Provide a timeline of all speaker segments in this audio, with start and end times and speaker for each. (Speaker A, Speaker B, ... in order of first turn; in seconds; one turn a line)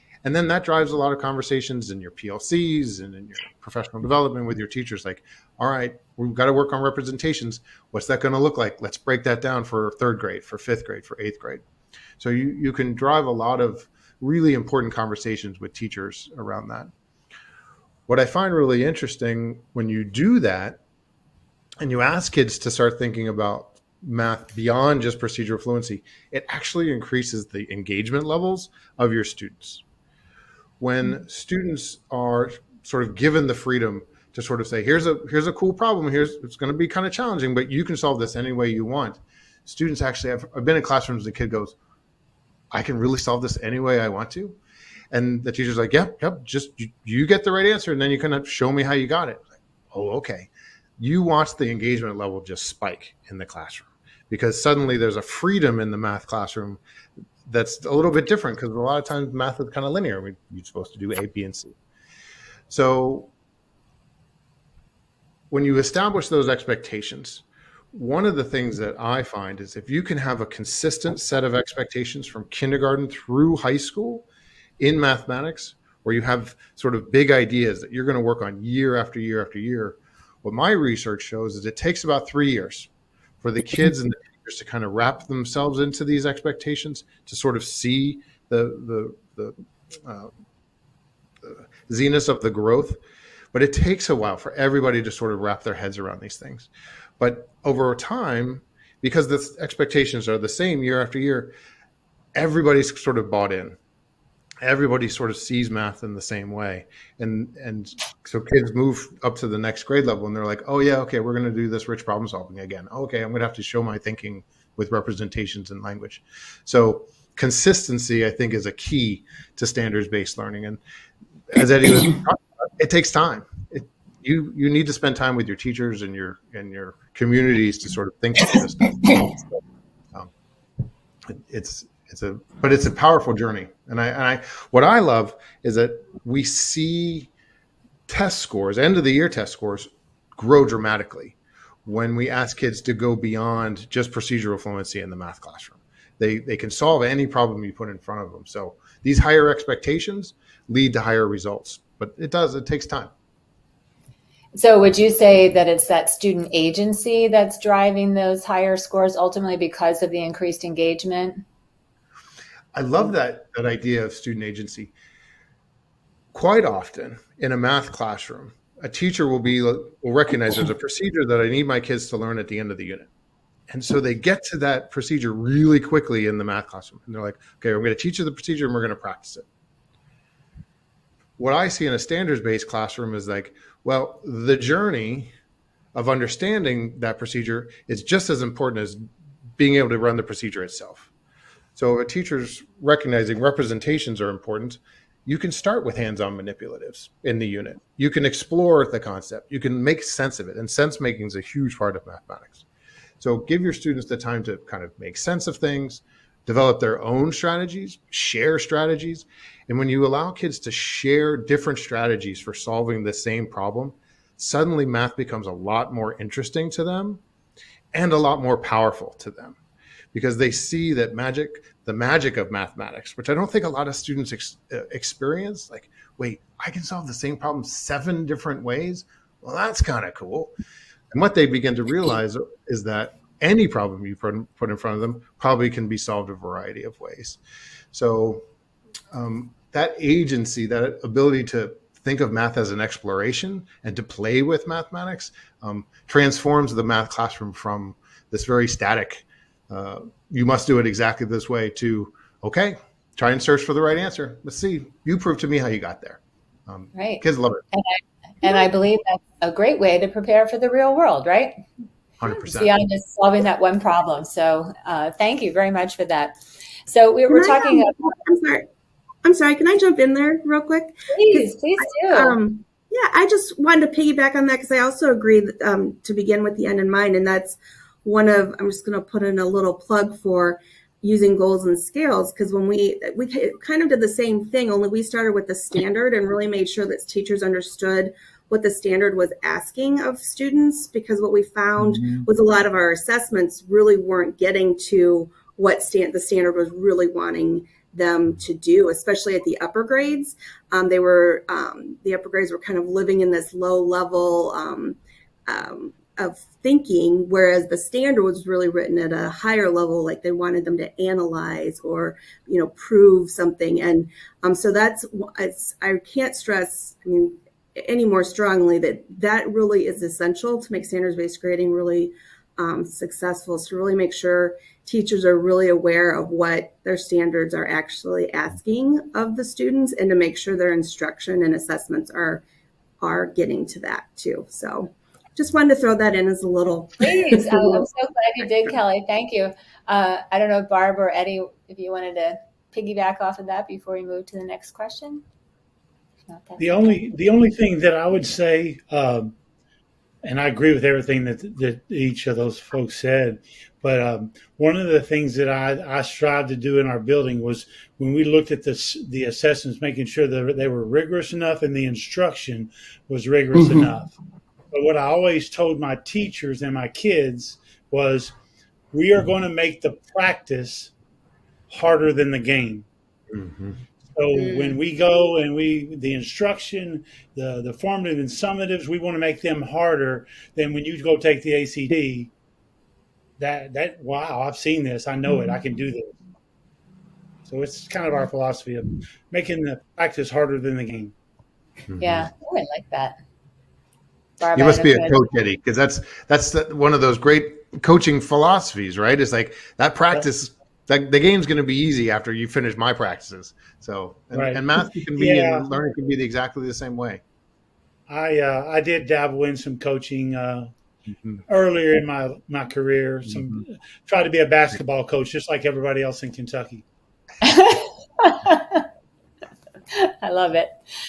Speaker A: 0.2-11.6
Speaker A: 12.2-16.9
Speaker A: 18.1-20.8
Speaker A: 21.8-29.8
Speaker A: 30.8-41.7
Speaker A: 42.7-44.6
Speaker A: 45.1-56.8
Speaker A: 57.5-61.7
Speaker A: 62.7-63.3
Speaker A: 65.5-74.2
Speaker A: 74.8-82.9
Speaker A: 83.4-90.3
Speaker A: 91.4-93.0
Speaker A: 93.5-101.5
Speaker A: 102.3-103.8
Speaker A: 104.6-120.8
Speaker A: 121.5-129.6
Speaker A: 131.3-137.3
Speaker A: 138.1-153.1
Speaker B: 154.5-161.4
Speaker A: 162.7-164.9
Speaker A: 166.3-173.1
Speaker A: 173.7-179.4
Speaker A: 181.4-185.3
Speaker A: 185.9-189.0
Speaker A: 189.6-191.1
Speaker A: 191.8-202.6
Speaker A: 203.2-217.2
Speaker A: 217.9-219.6
Speaker A: 220.1-230.5
Speaker A: 231.1-237.4
Speaker A: 237.9-238.4
Speaker A: 239.1-257.6
Speaker B: 256.9-261.6
Speaker A: 262.2-262.8
Speaker B: 262.5-266.4
Speaker B: 266.9-267.9
Speaker C: 267.3-268.6
Speaker C: 269.2-271.5
Speaker B: 271.1-272.4
Speaker C: 272.0-332.4
Speaker D: 291.9-292.2
Speaker C: 333.0-337.8
Speaker B: 337.0-345.2
Speaker B: 346.3-347.1
Speaker D: 346.6-349.3
Speaker D: 350.2-364.1
Speaker D: 364.7-368.3
Speaker D: 368.9-370.9
Speaker D: 371.7-372.9
Speaker A: 373.3-373.8
Speaker D: 374.0-382.3
Speaker D: 383.4-386.1
Speaker D: 387.4-391.1
Speaker A: 391.9-392.3
Speaker B: 392.0-393.2
Speaker B: 394.4-395.2
Speaker A: 394.5-407.2
Speaker D: 404.3-404.6
Speaker D: 405.1-405.7
Speaker D: 408.1-410.7
Speaker D: 411.5-416.8
Speaker B: 417.4-418.9
Speaker B: 419.9-420.8